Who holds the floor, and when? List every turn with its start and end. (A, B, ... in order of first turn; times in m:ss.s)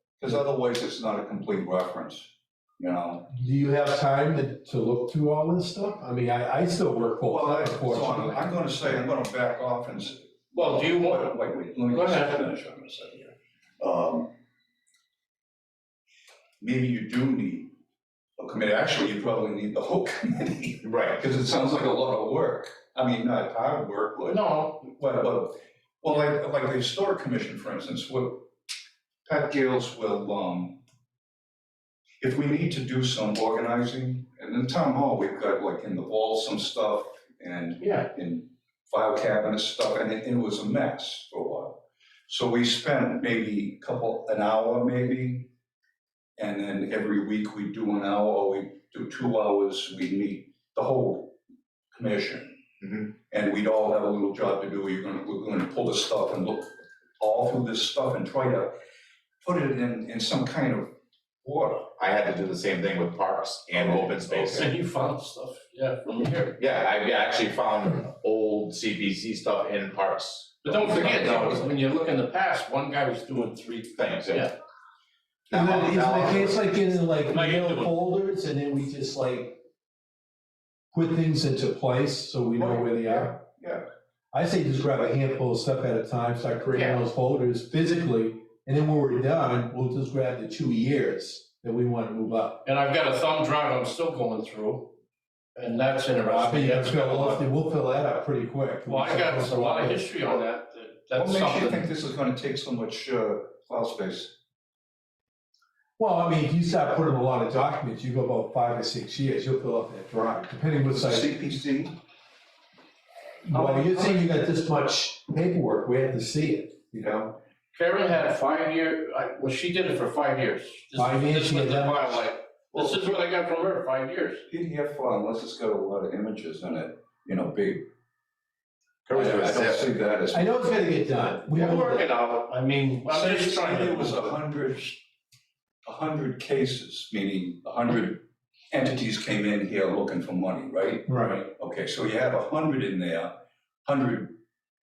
0:00.2-0:03.3 A
0:03.3-0:08.5 B
0:07.3-0:14.3 A
0:10.5-0:12.5 C
0:16.6-0:17.7 A
0:18.4-0:28.4 A
0:20.8-0:21.2 D
0:24.3-0:24.8 C
0:29.2-0:30.8 A
0:32.2-0:45.5 A
0:37.8-0:38.1 C
0:46.4-0:51.3 A
0:51.9-0:52.6 A
0:53.1-0:58.7 A
0:59.4-1:00.9 A
1:01.4-1:01.9 A
1:02.0-1:04.7 D
1:04.0-1:06.6 C
1:06.6-1:11.7 D
1:10.6-1:14.5 C
1:14.0-1:14.5 D
1:15.5-1:16.6 D
1:15.5-1:19.6 B
1:17.3-1:17.9 C
1:20.9-1:23.4 B
1:22.9-1:23.7 D
1:24.3-1:32.6 B
1:32.6-1:34.9 C
1:35.5-1:37.4 C
1:36.2-1:40.0 B
1:37.1-1:37.4 A
1:38.8-1:41.9 C
1:41.1-1:44.3 A
1:46.0-1:51.3 B
1:50.9-1:52.0 A
1:53.4-1:57.3 B
1:53.5-1:54.2 C
1:57.7-2:04.4 C
2:00.9-2:02.2 B
2:02.7-2:03.1 A
2:04.5-2:07.8 A
2:09.0-2:09.9 D
2:09.1-2:10.7 A
2:10.3-2:12.1 B
2:11.5-2:14.4 C
2:13.0-2:15.0 A
2:15.8-2:18.2 A
2:18.7-2:23.3 A
2:21.1-2:21.4 B
2:23.8-2:24.4 A